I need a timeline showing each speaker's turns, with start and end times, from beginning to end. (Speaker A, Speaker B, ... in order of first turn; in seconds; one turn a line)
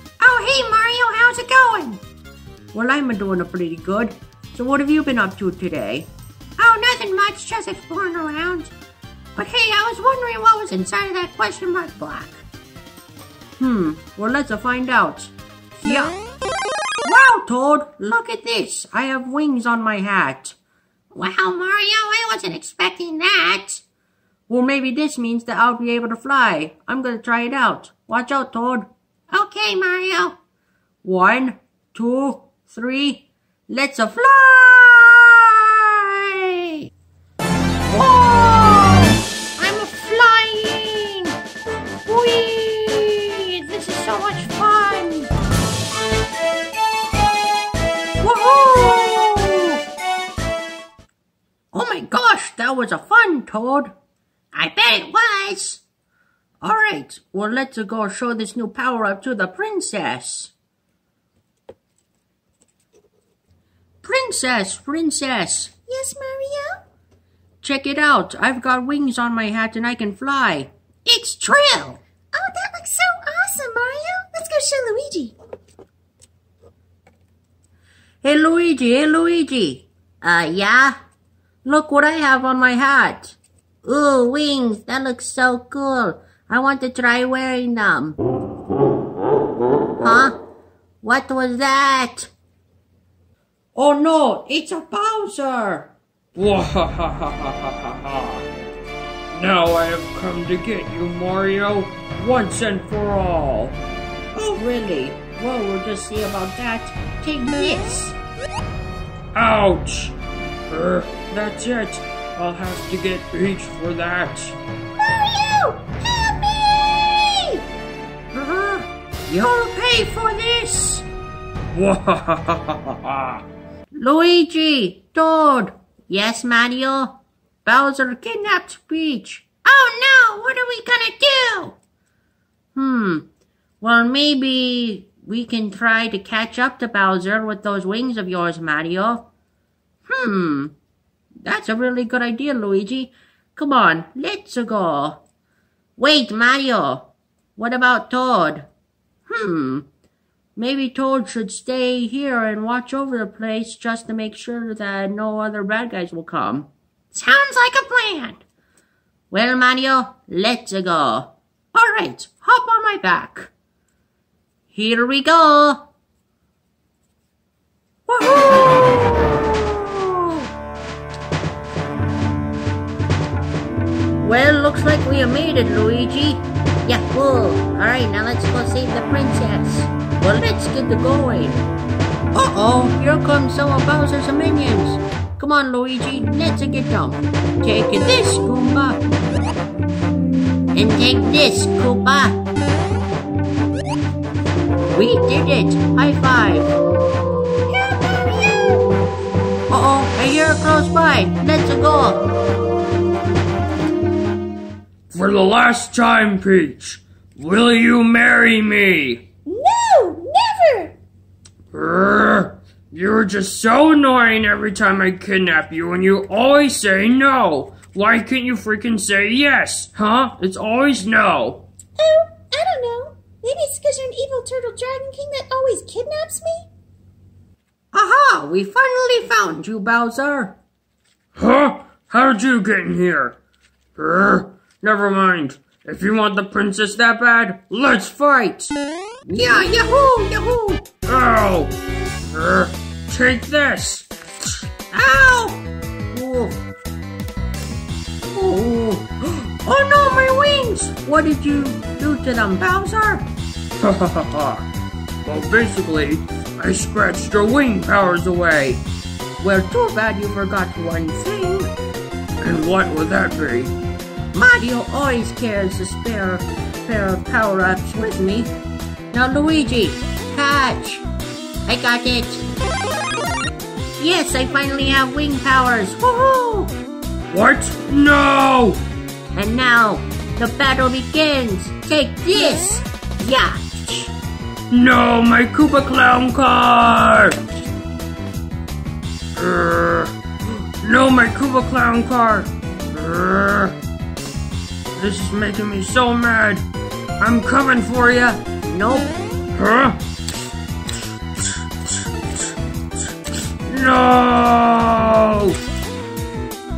Speaker A: 0.2-2.0
Speaker A: 2.7-8.7
Speaker A: 9.3-12.4
Speaker A: 13.6-16.1
Speaker A: 17.0-20.6
Speaker A: 21.1-23.8
Speaker A: 24.5-30.4
Speaker A: 31.0-36.9
Speaker A: 37.9-41.4
Speaker A: 42.0-45.3
Speaker A: 48.2-49.8
Speaker A: 51.7-53.9
Speaker A: 54.5-55.8
Speaker A: 56.6-60.5
Speaker A: 64.0-65.7
Speaker B: 65.9-66.8
Speaker A: 67.6-72.0
Speaker B: 72.3-75.3
Speaker A: 78.2-81.0
Speaker A: 81.6-88.2
Speaker A: 90.0-90.4
Speaker A: 91.0-92.3
Speaker A: 93.7-95.9
Speaker C: 96.3-98.5
Speaker C: 99.3-103.2
Speaker A: 103.1-103.7
Speaker A: 104.3-108.2
Speaker C: 109.3-110.2
Speaker C: 110.7-114.6
Speaker B: 115.1-117.6
Speaker A: 115.2-115.5
Speaker A: 118.3-121.0
Speaker C: 121.7-123.4
Speaker A: 123.9-131.8
Speaker A: 132.7-133.3
Speaker A: 133.8-139.3
Speaker A: 140.1-140.7
Speaker A: 141.4-145.2
Speaker A: 146.0-148.7
Speaker A: 149.3-149.9
Speaker A: 150.6-158.4
Speaker A: 159.3-163.5
Speaker A: 164.7-165.9
Speaker A: 168.1-170.5
Speaker A: 174.2-181.7
Speaker A: 182.3-189.1
Speaker A: 190.7-192.4
Speaker A: 194.9-196.7
Speaker B: 197.8-198.9
Speaker A: 199.7-202.2
Speaker C: 205.1-209.2
Speaker B: 209.4-210.9
Speaker C: 211.7-221.6
Speaker B: 222.0-226.7
Speaker A: 227.9-230.6
Speaker C: 231.3-233.4
Speaker C: 234.0-237.7
Speaker A: 237.8-238.7
Speaker A: 239.2-240.9
Speaker C: 241.1-241.7
Speaker C: 242.3-244.1
Speaker A: 244.9-246.6
Speaker A: 248.2-253.3
Speaker C: 253.8-254.6
Speaker C: 255.2-258.8
Speaker A: 259.4-261.7
Speaker C: 262.4-263.7
Speaker A: 264.3-268.5
Speaker A: 269.1-271.0
Speaker A: 271.6-272.4
Speaker A: 274.0-276.7
Speaker C: 277.3-278.8
Speaker A: 279.3-284.1
Speaker C: 284.7-287.4
Speaker C: 289.4-290.1
Speaker C: 290.8-293.8
Speaker C: 294.9-296.6
Speaker C: 297.2-298.4
Speaker A: 298.6-299.2
Speaker C: 299.5-300.0
Speaker C: 303.6-305.6